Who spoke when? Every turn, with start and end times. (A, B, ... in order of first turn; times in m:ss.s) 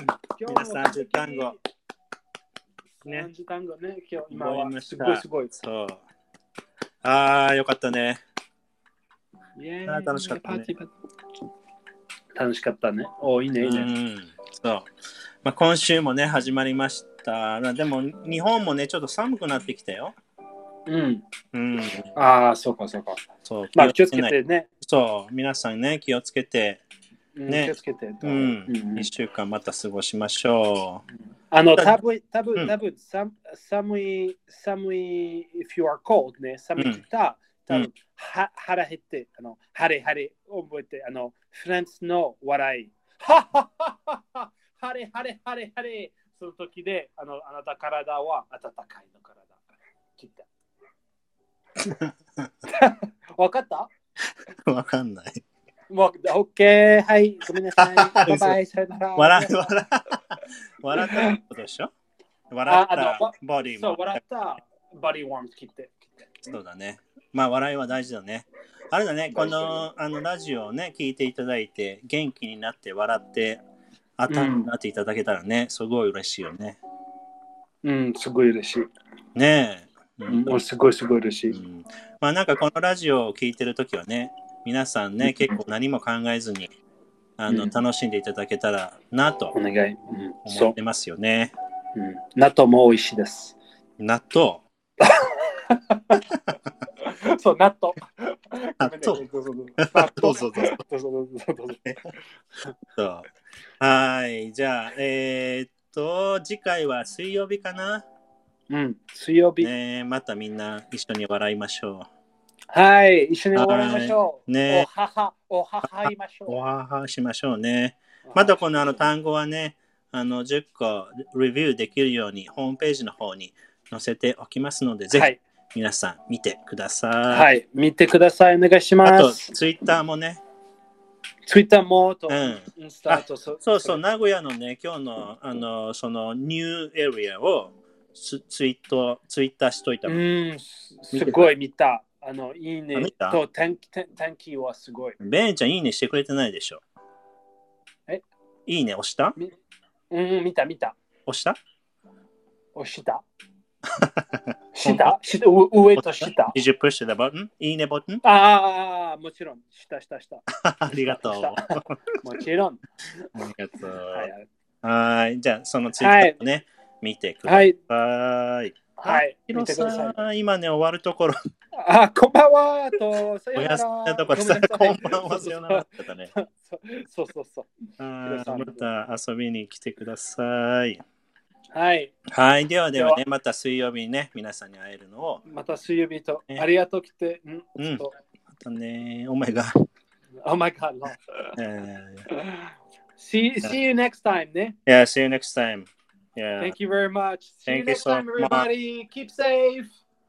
0:00.4-0:01.6 A
0:00.5-0:01.6 B
0:03.0-0:05.5 A
0:04.3-0:06.0 B
0:07.0-0:08.2 B
0:09.6-0:10.9 A
0:09.9-0:10.7 B
0:12.4-0:13.9 A
0:13.6-0:14.9 B
0:15.4-0:20.2 B
0:20.9-0:21.2 A
0:21.5-0:22.1 B
0:22.2-0:24.7 A
0:23.4-0:26.8 B
0:27.4-0:29.1 A
0:27.5-0:31.0 B
0:31.5-0:49.6 A
0:50.2-0:50.5 A
0:51.8-0:52.5 B
0:52.7-0:53.9 A
0:54.2-0:55.4 B
0:55.9-0:59.8 A
0:57.8-0:58.6 B
0:59.2-1:01.9 B
1:01.0-1:01.4 A
1:02.5-1:04.2 B
1:02.7-1:06.2 A
1:06.4-1:13.6 B
1:09.3-1:09.9 A
1:14.2-1:16.8 B
1:14.3-1:14.7 A
1:17.8-1:18.9 A
1:19.4-1:20.6 B
1:20.3-1:21.6 A
1:21.5-1:26.7 B
1:25.2-1:25.6 A
1:27.4-1:29.6 B
1:27.5-1:27.8 A
1:29.6-1:30.8 A
1:30.5-1:31.5 B
1:32.0-1:33.6 A
1:34.0-1:34.6 B
1:35.0-1:36.2 A
1:37.0-1:41.8 A
1:38.8-1:39.2 B
1:39.8-1:40.8 B
1:41.8-1:42.1 B
1:43.0-1:43.3 B
1:43.8-1:48.0 B
1:48.7-1:49.7 A
1:49.6-1:52.1 B
1:52.7-1:56.6 A
1:53.6-1:54.9 B
1:55.8-2:07.5 B
1:58.2-1:59.0 A
2:05.1-2:05.4 A
2:07.3-2:09.6 A
2:09.0-2:10.4 B
2:11.5-2:14.0 A
2:12.3-2:20.2 B
2:20.1-2:25.2 A
2:21.1-2:21.5 B
2:23.0-2:23.4 B
2:25.2-2:26.8 B
2:28.7-2:29.4 B
2:30.1-2:31.0 A
2:31.3-2:31.6 B
2:32.8-2:33.2 A
2:33.9-2:35.1 B
2:34.8-2:36.6 A
2:36.0-2:38.2 B
2:38.2-2:40.4 A
2:40.6-2:42.0 B
2:41.0-2:43.3 A
2:43.3-2:44.3 B
2:44.1-2:44.5 A
2:44.8-2:51.4 B
2:46.0-2:46.4 A
2:47.4-2:47.8 A
2:49.0-2:50.2 A
2:51.8-2:57.7 A
2:53.6-2:56.3 B
2:58.0-3:01.0 B
2:58.2-2:58.9 A
3:01.7-3:02.1 A
3:02.3-3:05.4 B
3:03.0-3:03.2 A
3:05.5-3:08.2 A
3:07.8-3:09.7 B
3:10.4-3:11.6 A
3:11.6-3:12.3 B
3:12.3-3:14.8 A
3:14.9-3:16.7 B
3:16.6-3:20.0 A
3:17.7-3:18.7 B